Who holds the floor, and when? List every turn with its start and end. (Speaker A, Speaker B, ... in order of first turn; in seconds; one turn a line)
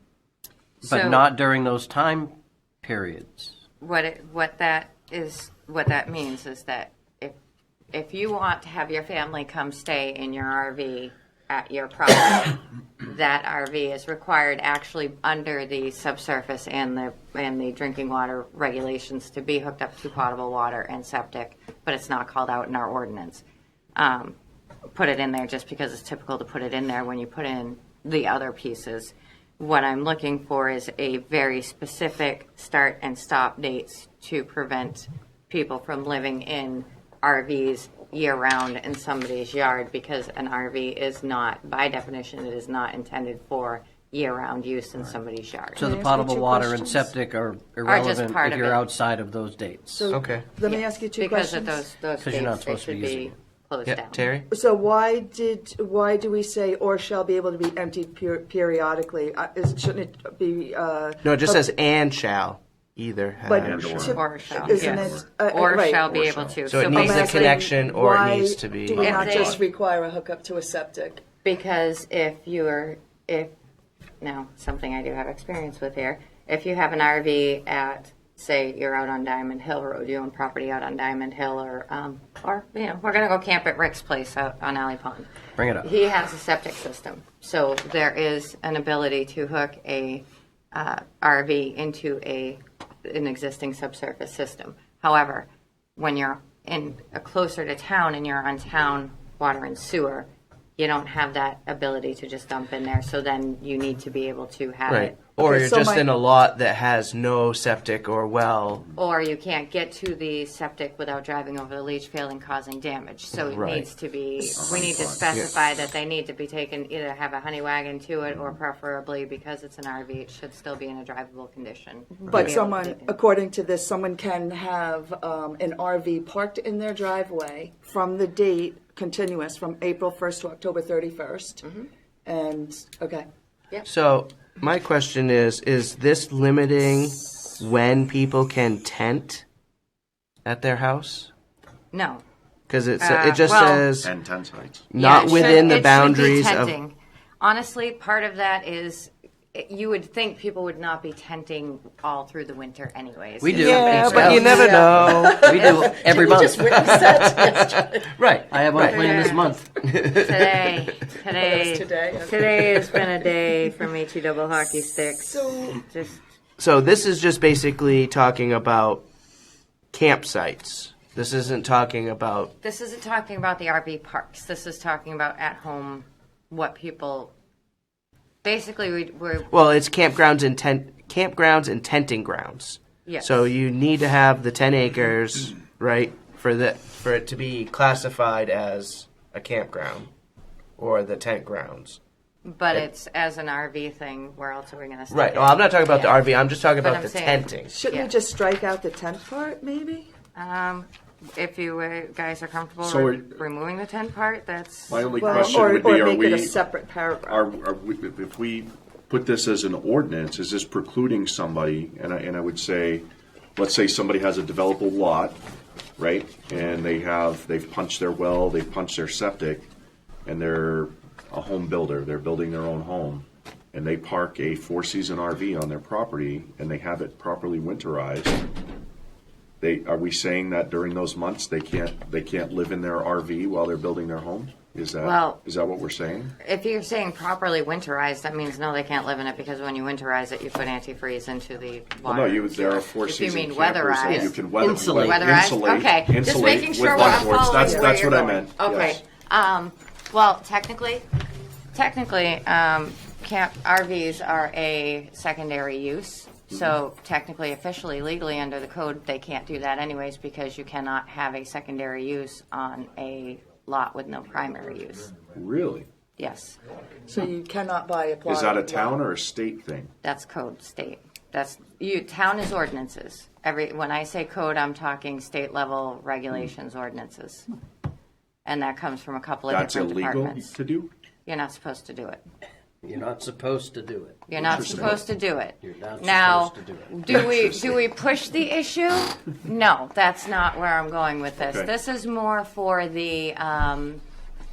Speaker A: 0.8-1.3
Speaker B: 0.8-3.6
Speaker A: 3.8-7.3
Speaker A: 7.9-23.4
Speaker A: 24.0-24.4
Speaker A: 24.9-45.8
Speaker B: 45.7-50.1
Speaker C: 45.8-47.1
Speaker A: 47.9-48.8
Speaker C: 49.9-51.9
Speaker D: 50.1-50.5
Speaker A: 50.6-54.3
Speaker B: 52.2-53.4
Speaker D: 53.9-54.5
Speaker C: 54.5-61.7
Speaker D: 61.2-64.0
Speaker C: 63.4-66.1
Speaker E: 63.5-65.3
Speaker A: 63.9-67.6
Speaker E: 66.0-66.8
Speaker D: 66.7-69.1
Speaker C: 66.9-71.2
Speaker E: 69.0-69.6
Speaker A: 69.0-69.6
Speaker A: 71.4-73.5
Speaker A: 74.2-85.3
Speaker B: 85.6-85.9
Speaker A: 85.8-105.4
Speaker D: 104.9-108.9
Speaker C: 105.4-106.1
Speaker A: 109.0-123.1
Speaker D: 113.5-113.9
Speaker E: 114.5-115.3
Speaker C: 122.1-131.7
Speaker A: 131.6-131.9
Speaker C: 132.2-133.3
Speaker D: 133.8-139.4
Speaker D: 140.4-141.3
Speaker A: 141.9-142.2
Speaker D: 142.7-144.1
Speaker A: 143.0-143.9
Speaker E: 144.0-144.9
Speaker D: 144.9-146.8
Speaker A: 145.0-156.6
Speaker B: 153.4-157.6
Speaker D: 153.6-155.6
Speaker C: 154.6-158.1
Speaker D: 156.9-159.3
Speaker B: 158.2-159.7
Speaker A: 158.8-159.6
Speaker D: 159.9-160.8
Speaker A: 160.1-166.2
Speaker C: 161.3-163.3
Speaker C: 165.2-165.8
Speaker D: 166.6-169.0
Speaker D: 169.9-172.5
Speaker A: 172.6-177.3
Speaker A: 178.4-179.5
Speaker D: 179.5-190.1
Speaker A: 183.1-183.5
Speaker D: 190.8-192.0
Speaker A: 192.4-198.1
Speaker D: 195.1-197.7
Speaker C: 197.7-200.1
Speaker A: 200.3-205.8
Speaker E: 202.8-203.4
Speaker E: 204.9-206.6
Speaker C: 205.2-207.4
Speaker E: 207.3-215.4
Speaker E: 216.0-219.7
Speaker E: 220.3-228.4
Speaker E: 229.6-236.3
Speaker A: 235.0-235.4
Speaker A: 236.4-251.1
Speaker E: 242.0-249.0
Speaker B: 244.1-245.5
Speaker A: 251.7-265.1
Speaker E: 265.3-265.9
Speaker A: 266.2-266.6
Speaker C: 267.1-269.0
Speaker E: 268.3-269.9
Speaker A: 270.0-277.5
Speaker A: 278.4-280.6
Speaker E: 279.5-280.9
Speaker A: 281.3-282.2
Speaker B: 282.8-285.0
Speaker A: 284.3-294.0
Speaker E: 284.4-285.1
Speaker B: 285.6-287.1
Speaker E: 287.1-287.8
Speaker E: 291.4-291.7